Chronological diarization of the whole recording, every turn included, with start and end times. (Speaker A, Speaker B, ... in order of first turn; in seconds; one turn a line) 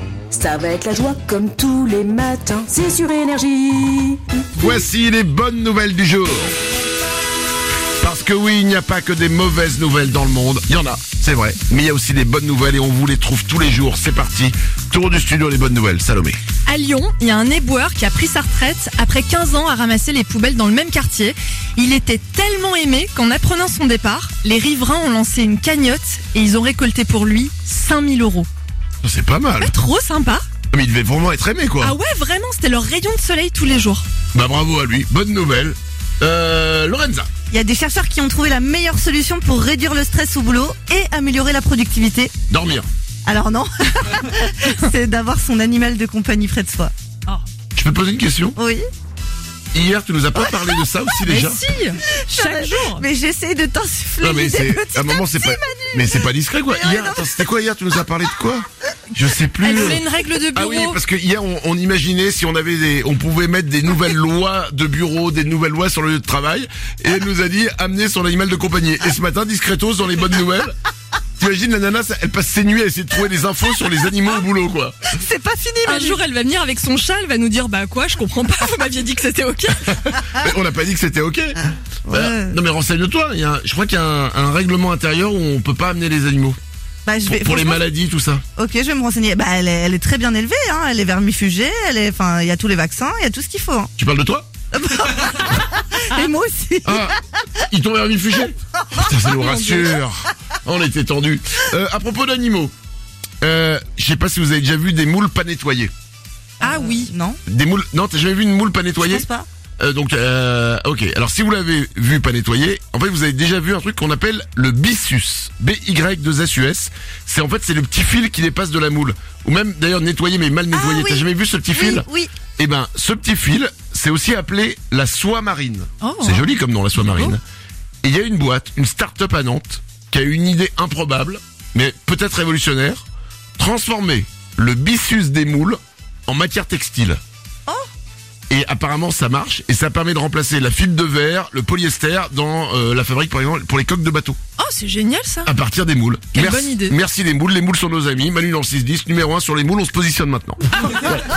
Speaker A: 0.3-4.2
Speaker B: 4.6-6.5
Speaker B: 8.0-16.4
Speaker C: 16.7-28.5
Speaker B: 29.0-29.7
Speaker C: 29.6-30.4
Speaker B: 30.7-32.0
Speaker C: 31.8-34.0
Speaker B: 34.3-37.3
Speaker D: 37.5-42.3
Speaker B: 42.5-42.9
Speaker D: 43.3-46.9
Speaker B: 47.8-48.6
Speaker D: 48.6-48.9
Speaker B: 49.7-51.6
Speaker C: 51.2-53.0
Speaker D: 52.3-57.4
Speaker B: 54.2-70.8
Speaker C: 59.6-61.0
Speaker B: 71.4-75.2
Speaker D: 75.1-76.2
Speaker C: 75.8-80.0
Speaker B: 79.8-86.6
Speaker D: 82.0-82.6
Speaker D: 87.1-87.9
Speaker B: 87.2-88.4
Speaker D: 88.5-93.9
Speaker B: 94.0-94.5
Speaker D: 94.7-97.1
Speaker B: 96.8-97.2
Speaker B: 97.7-102.7
Speaker D: 98.9-100.0
Speaker B: 103.4-105.9
Speaker C: 106.6-107.1
Speaker D: 106.6-107.4
Speaker B: 107.5-109.3
Speaker D: 109.0-109.5
Speaker B: 109.8-127.4
Speaker D: 120.7-122.3
Speaker C: 126.0-127.3
Speaker B: 128.0-133.1
Speaker B: 133.6-137.2
Speaker B: 138.5-144.4
Speaker C: 144.6-145.5
Speaker B: 145.5-150.6
Speaker C: 146.3-147.0